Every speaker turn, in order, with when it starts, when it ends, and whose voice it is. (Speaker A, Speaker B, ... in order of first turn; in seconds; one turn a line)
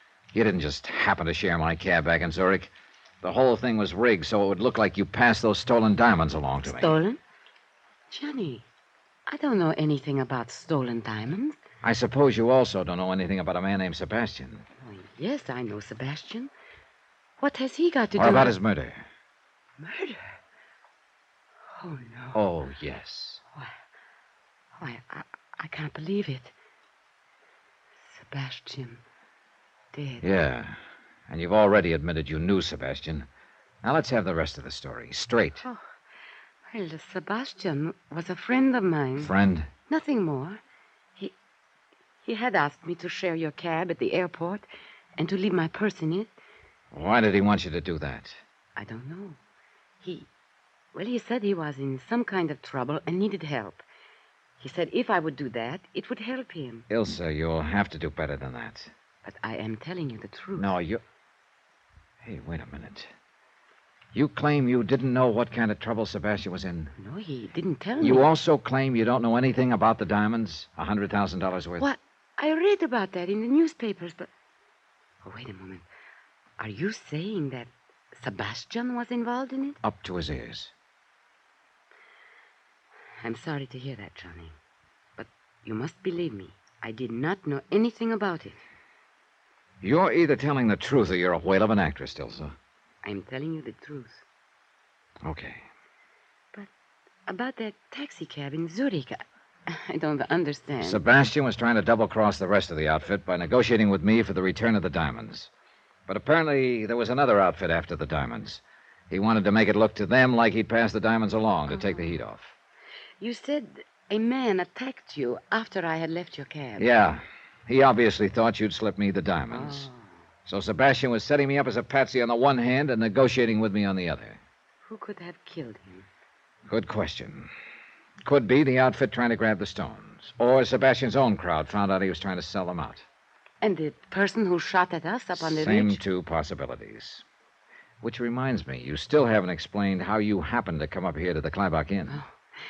Speaker A: 0.3-2.7
Speaker A: 3.2-7.0
Speaker B: 6.6-7.2
Speaker B: 8.1-8.6
Speaker B: 9.3-11.6
Speaker A: 11.8-14.6
Speaker B: 14.8-16.5
Speaker B: 17.4-18.5
Speaker A: 18.2-19.0
Speaker B: 19.8-20.3
Speaker B: 21.8-22.4
Speaker A: 22.3-23.4
Speaker B: 24.8-26.5
Speaker B: 28.1-29.0
Speaker B: 29.9-30.3
Speaker A: 30.2-30.8
Speaker A: 31.3-33.3
Speaker A: 33.8-35.6
Speaker B: 36.7-39.3
Speaker A: 39.2-39.7
Speaker B: 39.9-40.6
Speaker B: 42.2-44.6
Speaker B: 45.2-46.3
Speaker A: 46.9-48.4
Speaker B: 48.8-49.4
Speaker B: 50.0-50.3
Speaker B: 50.9-53.8
Speaker B: 54.6-56.9
Speaker A: 56.9-58.9
Speaker B: 59.2-60.7
Speaker A: 60.5-61.0
Speaker A: 62.2-63.1
Speaker A: 64.1-66.9
Speaker B: 67.0-68.3
Speaker A: 68.0-71.8
Speaker B: 71.8-74.3
Speaker B: 75.2-75.8
Speaker B: 76.6-79.8
Speaker A: 79.8-80.7
Speaker B: 83.2-84.5
Speaker B: 85.2-88.6
Speaker A: 89.8-92.5
Speaker B: 93.0-94.2
Speaker A: 95.2-95.7
Speaker B: 97.3-101.0
Speaker A: 100.8-105.5
Speaker A: 106.1-112.5
Speaker B: 111.7-112.2
Speaker B: 113.2-116.9
Speaker A: 116.8-119.9
Speaker B: 119.5-120.1
Speaker A: 120.5-124.4
Speaker B: 124.8-126.1
Speaker A: 126.7-127.5
Speaker A: 128.2-133.0
Speaker B: 133.6-136.0
Speaker A: 135.3-137.2
Speaker A: 138.0-142.2